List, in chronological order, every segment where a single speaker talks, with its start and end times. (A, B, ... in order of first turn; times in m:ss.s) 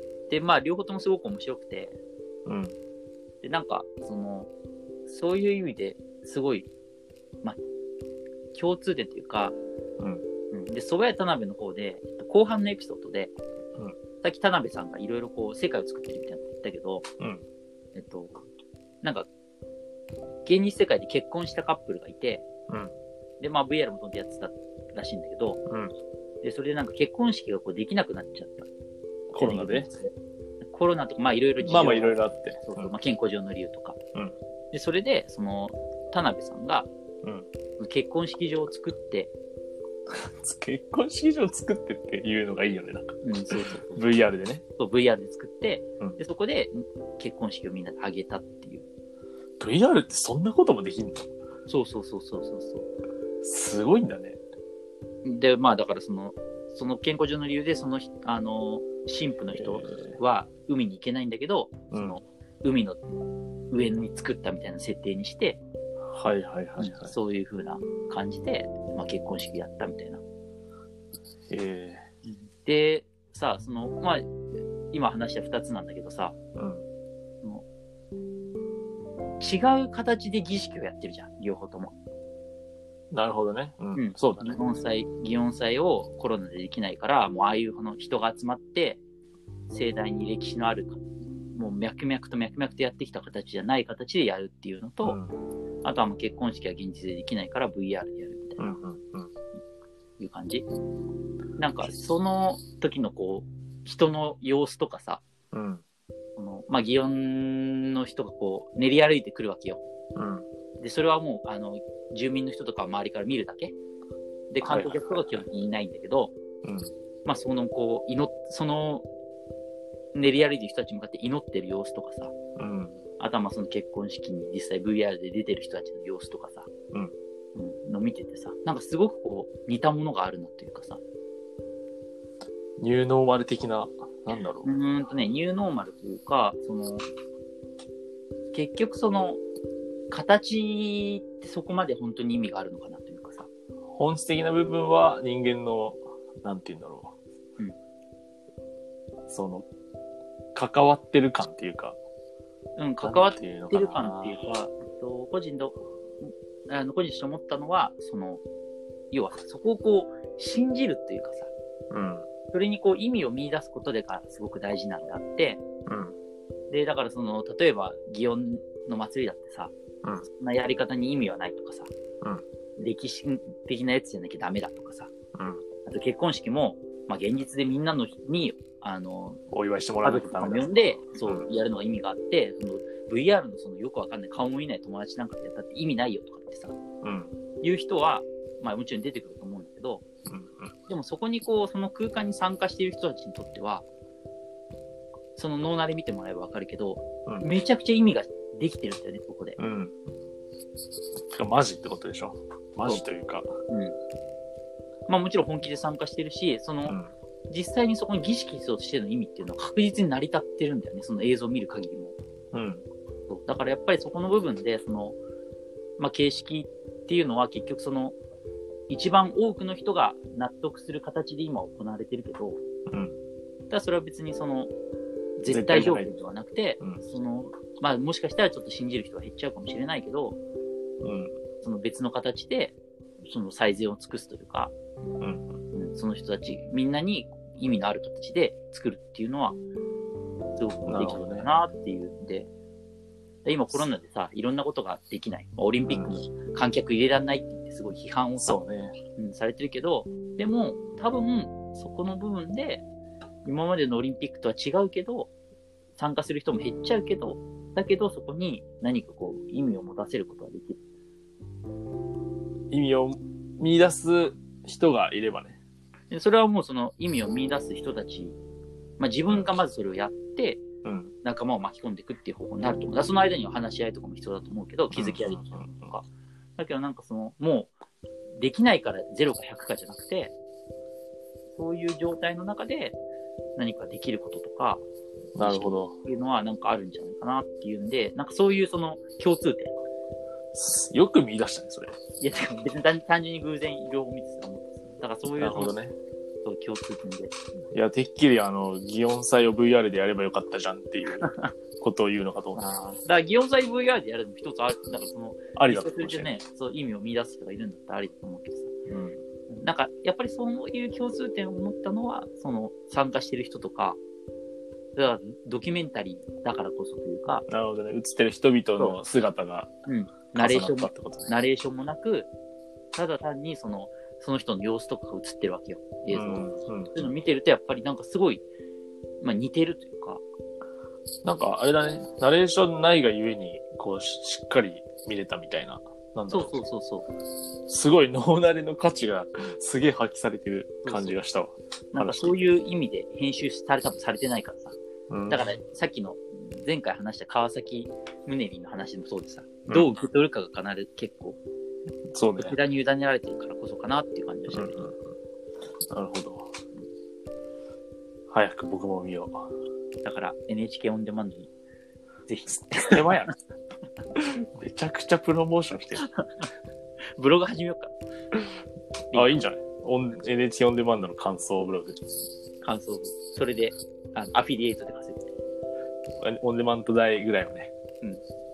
0:00.3-0:02.0 A
0:02.5-0:02.8 B
0:03.4-0:04.5 A
0:05.1-0:06.7 A
0:08.5-0:09.6 A
0:10.5-0:13.3 A
0:14.2-0:17.1 A
0:18.0-0:18.4 A
0:19.0-0:19.3 A
0:20.4-0:22.4 A
0:22.7-0:22.9 B
0:23.4-0:25.6 A
0:25.7-0:25.9 B
0:26.4-0:28.7 A
0:29.3-0:29.9 B
0:29.4-0:30.1 A
0:30.7-0:34.0 A
0:31.6-0:32.9 B
0:34.7-0:36.9 A
0:37.8-0:39.3 A
0:40.1-0:43.2 B
0:43.2-0:44.0 A
0:43.9-0:44.6 B
0:44.8-0:48.8 A
0:49.6-0:51.3 B
0:51.7-0:52.9 A
0:53.4-0:54.4 B
0:55.2-1:03.0 A
0:59.6-1:00.2 B
1:01.9-1:02.2 B
1:03.7-1:05.6 A
1:06.1-1:07.1 B
1:06.8-1:10.2 A
1:11.5-1:12.0 B
1:12.2-1:14.3 A
1:14.9-1:16.4 A
1:16.6-1:16.8 B
1:19.4-1:22.0 A
1:23.1-1:24.6 B
1:24.0-1:29.0 A
1:29.7-1:31.0 A
1:31.6-1:35.2 A
1:35.0-1:35.4 B
1:35.8-1:38.8 A
1:38.6-1:39.3 B
1:40.2-1:40.7 A
1:41.6-1:45.2 A
1:45.5-1:45.8 B
1:46.4-1:49.8 A
1:50.2-1:50.5 B
1:50.8-1:53.8 A
1:54.5-1:56.3 A
1:54.6-1:55.4 B
1:56.6-1:56.9 B
1:57.2-1:59.1 A
2:00.1-2:02.3 A
2:02.6-2:03.0 B
2:03.2-2:06.7 A
2:07.6-2:11.0 A
2:12.8-2:14.7 B
2:14.6-2:17.1 A
2:18.5-2:19.4 A
2:20.1-2:23.5 A
2:23.9-2:27.2 B
2:29.3-2:29.7 B
2:30.6-2:32.0 B
2:32.8-2:38.4 A
2:33.0-2:34.4 B
2:39.1-2:41.5 A
2:41.9-2:42.3 B
2:42.5-2:45.6 A
2:45.9-2:46.2 B
2:46.7-2:49.7 A
2:50.3-2:51.9 A
2:52.8-2:55.1 A
2:55.4-2:55.6 B
2:55.8-2:59.4 A
2:59.5-3:01.5 B
3:00.0-3:06.8 A
3:07.0-3:07.3 B
3:07.6-3:10.0 A
3:10.3-3:10.7 B
3:10.9-3:13.9 A
3:15.4-3:19.6 A
3:19.6-3:19.9 B
3:21.3-3:23.6 B
3:23.7-3:24.0 A
3:25.1-3:27.0 A
3:27.5-3:32.2 A
3:32.5-3:32.8 B
3:33.3-3:35.2 A
3:36.0-3:38.2 A
3:38.9-3:42.6 A
3:42.9-3:43.2 B
3:43.7-3:44.7 A
3:45.4-3:50.4 A
3:45.5-3:46.1 B
3:51.0-3:51.3 B
3:51.6-3:54.7 A
3:55.2-3:55.6 B
3:55.7-3:59.6 A
4:00.6-4:02.5 A
4:00.9-4:01.5 B
4:03.4-4:08.6 A
4:05.8-4:06.2 B
4:08.4-4:09.0 B
4:09.2-4:12.8 A
4:13.4-4:15.3 A
4:16.0-4:20.8 A
4:22.7-4:25.6 B
4:26.1-4:28.4 A
4:29.0-4:30.6 A
4:30.8-4:31.1 B
4:31.2-4:37.7 A
4:34.9-4:35.9 B
4:38.4-4:40.3 A
4:41.6-4:43.0 A
4:43.6-4:44.8 A
4:45.4-4:45.9 B
4:45.4-4:49.7 A
4:50.5-4:52.0 B
4:52.2-4:55.7 A
4:55.4-4:56.0 B
4:56.4-4:57.3 A
4:57.7-5:01.3 B
5:01.2-5:01.5 A
5:01.8-5:02.6 B
5:02.6-5:08.7 A
5:05.5-5:06.3 B
5:08.9-5:09.2 B
5:09.5-5:14.0 A
5:15.0-5:17.4 A
5:17.5-5:19.7 B
5:19.9-5:22.3 A
5:20.3-5:21.3 B
5:22.9-5:28.4 A
5:26.1-5:27.1 B
5:29.2-5:30.2 A
5:31.2-5:36.6 B
5:36.3-5:37.1 A
5:37.7-5:42.4 B
5:40.8-5:41.2 A
5:41.9-5:44.8 A
5:45.1-5:45.6 B
5:45.3-5:51.4 A
5:49.7-5:49.9 B
5:52.1-5:52.6 B
5:52.4-5:54.8 A
5:54.5-5:54.9 B
5:55.9-5:56.5 B
5:58.3-5:59.5 B
6:00.0-6:01.5 A
6:02.3-6:03.3 A
6:02.5-6:03.3 B
6:04.2-6:06.1 B
6:06.0-6:06.5 A
6:07.2-6:07.9 A
6:09.1-6:09.4 A
6:09.1-6:12.0 B
6:12.6-6:15.3 A
6:16.2-6:17.7 B